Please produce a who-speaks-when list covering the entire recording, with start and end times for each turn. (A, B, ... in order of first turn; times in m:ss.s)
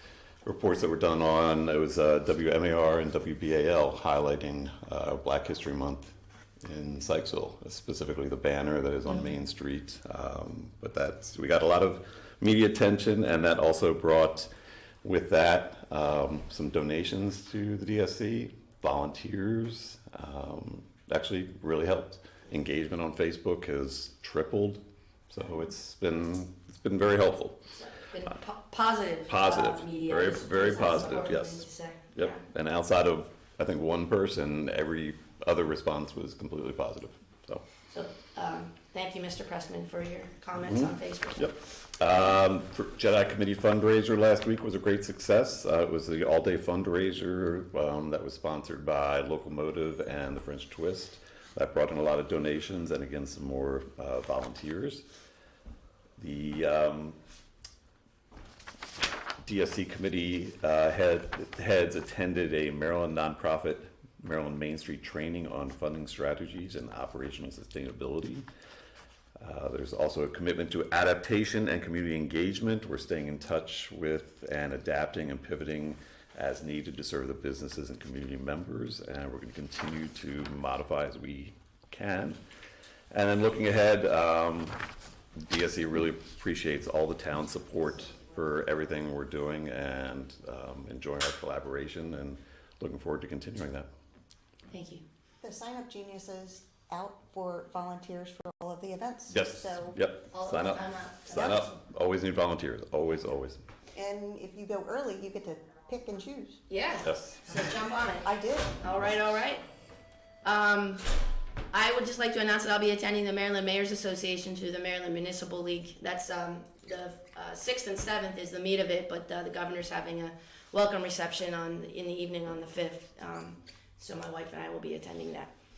0:00.4-0:06.1 A
0:06.6-0:14.5 A
0:15.0-0:27.6 A
0:27.7-0:32.4 B
0:29.3-0:37.6 A
0:37.9-0:41.6 B
0:40.5-0:55.0 A
0:56.2-0:57.2 A
0:59.4-1:08.4 A
1:09.4-1:22.4 A
1:23.1-1:24.8 A
1:25.5-1:33.9 A
1:34.7-1:35.0 B
1:35.4-1:40.0 C
1:39.3-1:43.6 A
1:40.3-1:41.7 B
1:41.3-1:41.6 C
1:43.9-1:46.6 C
1:46.7-1:49.6 B
1:47.0-1:47.4 A
1:48.2-1:48.7 C
1:50.4-1:51.1 B
1:51.7-2:05.5 B